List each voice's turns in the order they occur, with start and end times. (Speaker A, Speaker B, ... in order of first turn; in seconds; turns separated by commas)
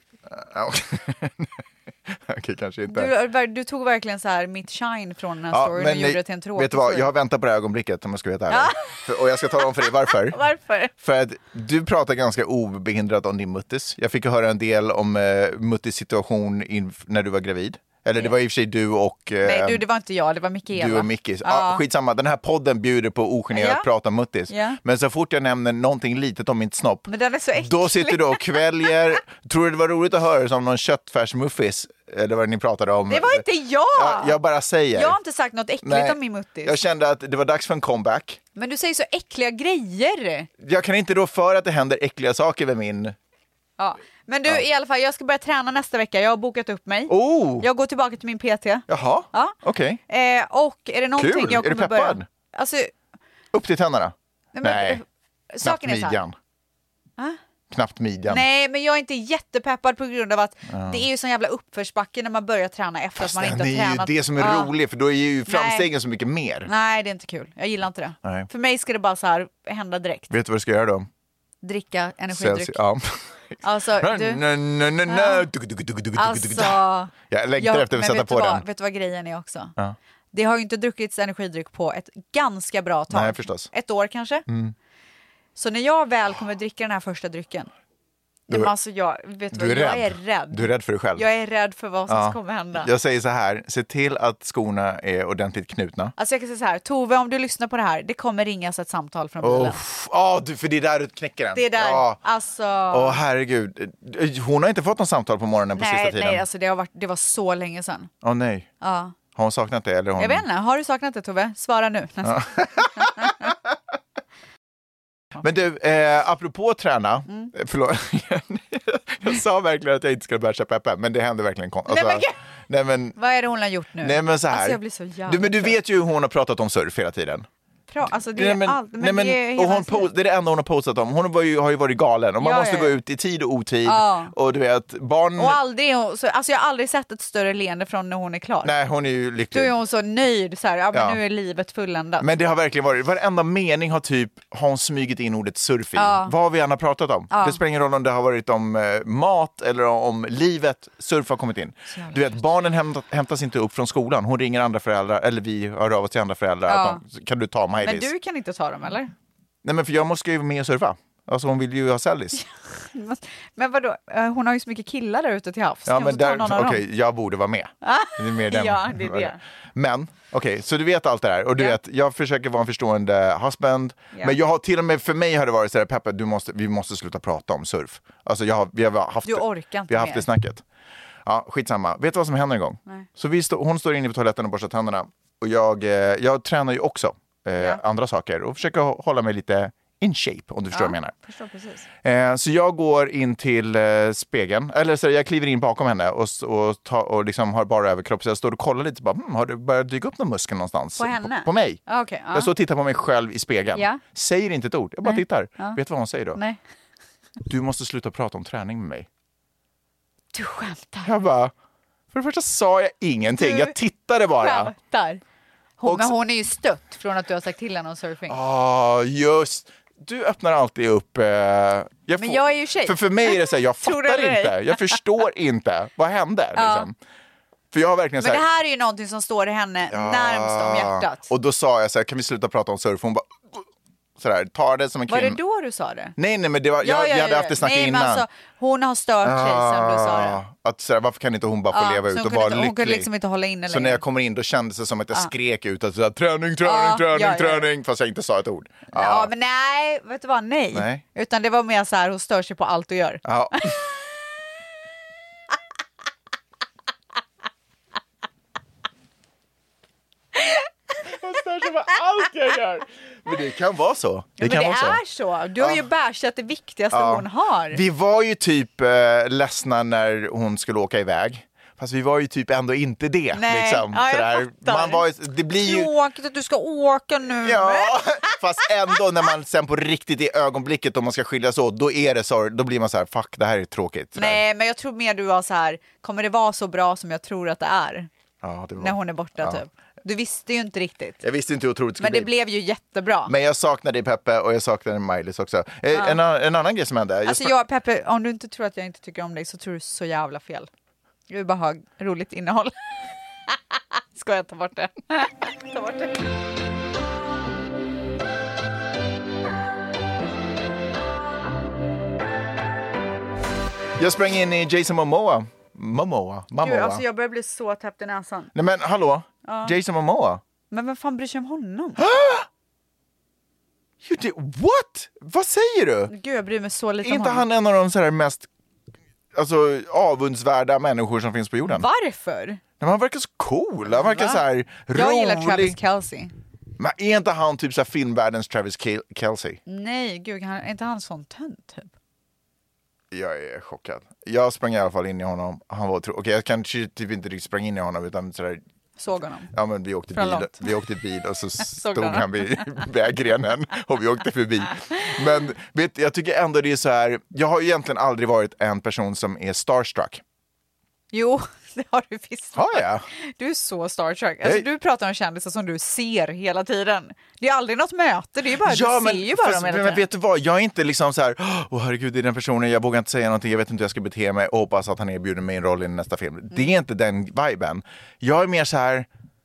Speaker A: 0.3-3.1, Speaker B: 2.9-7.1, Speaker A: 5.5-10.4, Speaker B: 8.5-8.8, Speaker B: 9.6-10.9, Speaker A: 11.0-19.8, Speaker B: 19.4-21.8, Speaker A: 20.7-35.2, Speaker B: 23.5-23.9, Speaker B: 24.5-24.8, Speaker B: 27.1-29.2, Speaker B: 33.1-34.4, Speaker B: 34.9-36.8, Speaker A: 35.8-38.4, Speaker B: 38.5-40.5, Speaker A: 40.6-43.1, Speaker B: 43.8-49.6, Speaker A: 47.1-47.7, Speaker A: 48.9-50.0, Speaker B: 50.1-52.9, Speaker A: 51.2-52.3, Speaker A: 53.5-55.0, Speaker B: 54.5-56.2, Speaker A: 55.6-56.4, Speaker A: 57.7-58.4, Speaker B: 58.3-64.7, Speaker A: 60.7-61.0, Speaker A: 63.2-66.7, Speaker B: 65.5-65.9, Speaker B: 66.7-70.3, Speaker A: 68.2-68.5, Speaker A: 70.3-71.1, Speaker B: 71.6-72.8, Speaker A: 72.3-78.6, Speaker B: 73.6-74.4, Speaker B: 75.1-75.5, Speaker B: 76.2-79.7, Speaker B: 80.3-84.5, Speaker A: 83.1-83.7, Speaker A: 84.5-84.8, Speaker B: 85.6-87.7, Speaker B: 88.5-92.9, Speaker A: 89.5-91.3, Speaker A: 92.1-96.1, Speaker B: 96.2-99.8, Speaker A: 99.4-102.2, Speaker B: 101.5-103.2, Speaker A: 102.9-106.4, Speaker B: 105.8-108.1, Speaker A: 108.2-108.7, Speaker B: 108.8-109.2, Speaker A: 109.3-110.5, Speaker B: 110.2-113.5, Speaker A: 112.2-113.7, Speaker A: 115.4-123.2, Speaker B: 121.9-122.4, Speaker B: 123.2-125.8, Speaker A: 124.0-127.5, Speaker B: 127.9-130.1, Speaker A: 128.3-135.6, Speaker B: 132.4-132.9, Speaker B: 133.9-134.3, Speaker B: 135.4-138.7, Speaker A: 138.6-139.7, Speaker B: 139.5-142.3, Speaker A: 140.9-141.2, Speaker A: 142.2-158.1, Speaker B: 146.0-146.3, Speaker B: 147.3-147.6, Speaker B: 151.9-152.3, Speaker B: 156.7-157.0, Speaker B: 157.8-159.1, Speaker A: 159.6-162.4, Speaker B: 162.4-166.8, Speaker A: 165.9-180.6, Speaker B: 167.8-169.4, Speaker B: 179.2-180.3, Speaker A: 181.2-191.1, Speaker B: 190.7-191.9, Speaker A: 192.0-201.8, Speaker B: 201.0-202.5, Speaker A: 202.3-206.4, Speaker B: 203.8-204.0, Speaker B: 205.1-205.8, Speaker A: 207.5-209.1, Speaker B: 210.3-211.1, Speaker A: 211.0-211.5, Speaker A: 212.1-214.7, Speaker B: 213.4-213.8, Speaker B: 214.4-215.2, Speaker B: 215.8-218.4, Speaker A: 215.8-216.1, Speaker A: 218.3-226.9, Speaker B: 222.2-225.0, Speaker B: 226.6-226.9, Speaker A: 227.7-228.4, Speaker B: 228.2-231.3, Speaker A: 229.9-233.7, Speaker A: 234.2-235.4, Speaker B: 235.1-236.2, Speaker A: 236.2-238.2, Speaker B: 236.8-240.4, Speaker A: 239.2-243.1, Speaker B: 241.7-244.0, Speaker A: 243.7-249.3, Speaker B: 246.6-247.7, Speaker B: 248.9-253.7, Speaker A: 250.7-251.0, Speaker A: 253.2-253.8, Speaker B: 260.4-260.7, Speaker A: 261.1-265.0, Speaker B: 264.4-267.8, Speaker A: 265.6-265.8, Speaker A: 266.9-275.9, Speaker B: 273.3-278.4, Speaker A: 277.4-284.4, Speaker B: 284.1-288.1, Speaker A: 288.4-289.6, Speaker B: 288.8-291.2, Speaker A: 291.2-292.3, Speaker B: 292.0-293.3, Speaker A: 293.3-297.5, Speaker B: 295.9-296.2, Speaker B: 297.2-300.7, Speaker B: 301.3-302.8, Speaker B: 303.5-306.2, Speaker A: 314.0-317.0, Speaker B: 316.6-318.5, Speaker A: 318.5-320.4, Speaker B: 319.4-319.8, Speaker B: 320.7-322.0, Speaker A: 322.0-322.5, Speaker A: 324.0-326.1, Speaker B: 326.1-327.4, Speaker A: 327.0-328.5, Speaker A: 329.3-331.9, Speaker B: 331.7-332.6, Speaker A: 332.8-335.8, Speaker B: 333.9-336.3, Speaker A: 336.8-339.6, Speaker B: 339.7-341.9, Speaker A: 343.1-348.6, Speaker B: 349.0-349.5, Speaker A: 349.5-360.2, Speaker B: 350.1-350.8, Speaker B: 351.6-352.8, Speaker B: 361.1-370.0, Speaker A: 362.6-363.1, Speaker A: 368.6-379.1